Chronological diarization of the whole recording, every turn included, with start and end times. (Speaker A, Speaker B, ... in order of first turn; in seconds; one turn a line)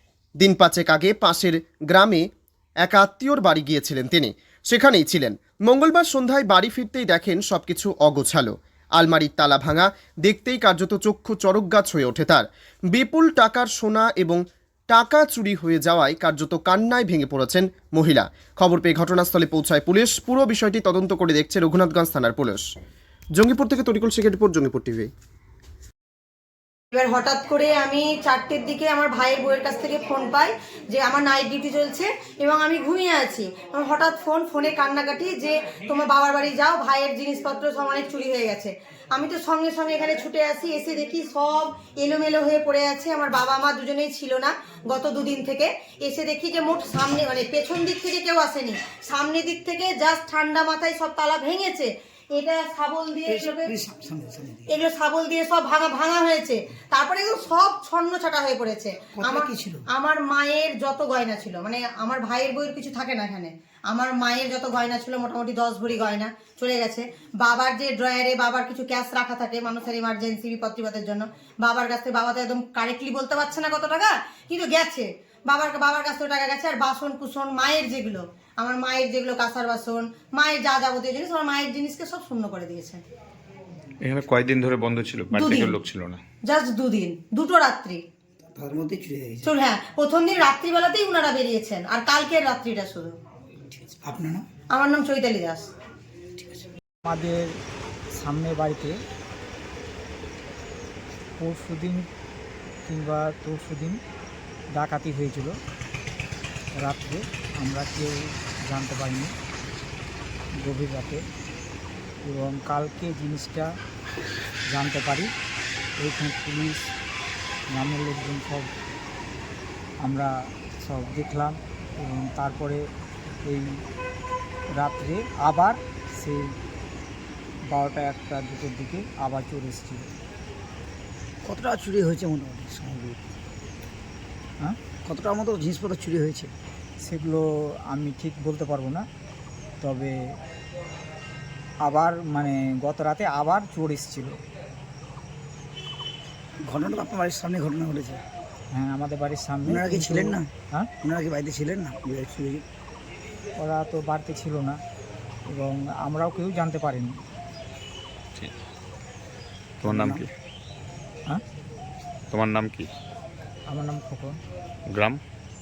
Speaker A: 0.4-2.2
Speaker A: 2.8-22.6
Speaker A: 23.4-25.1
Speaker B: 26.9-53.7
Speaker C: 53.2-54.7
Speaker B: 54.7-83.0
Speaker C: 59.2-59.8
Speaker D: 84.0-86.2
Speaker B: 85.3-85.8
Speaker B: 86.5-88.0
Speaker C: 88.5-89.5
Speaker B: 89.4-93.1
Speaker C: 93.7-94.4
Speaker B: 94.7-95.7
Speaker C: 96.4-96.7
Speaker E: 97.0-97.6
Speaker E: 98.1-99.0
Speaker E: 101.4-102.1
Speaker E: 102.8-104.0
Speaker E: 104.7-105.6
Speaker E: 106.7-109.3
Speaker E: 110.6-111.2
Speaker E: 112.2-113.7
Speaker E: 114.7-115.3
Speaker E: 116.0-116.9
Speaker E: 117.7-118.7
Speaker E: 120.0-122.8
Speaker E: 123.4-123.8
Speaker E: 124.7-126.5
Speaker E: 127.7-130.1
Speaker C: 131.4-133.2
Speaker C: 135.0-136.5
Speaker E: 137.0-139.1
Speaker E: 139.8-140.4
Speaker E: 141.8-144.4
Speaker C: 146.7-148.2
Speaker E: 148.7-150.9
Speaker C: 149.7-150.5
Speaker C: 151.0-152.6
Speaker E: 153.6-154.8
Speaker E: 155.5-157.2
Speaker D: 159.8-160.2
Speaker C: 159.8-160.3
Speaker D: 162.3-162.9
Speaker E: 163.7-164.4
Speaker D: 164.9-165.2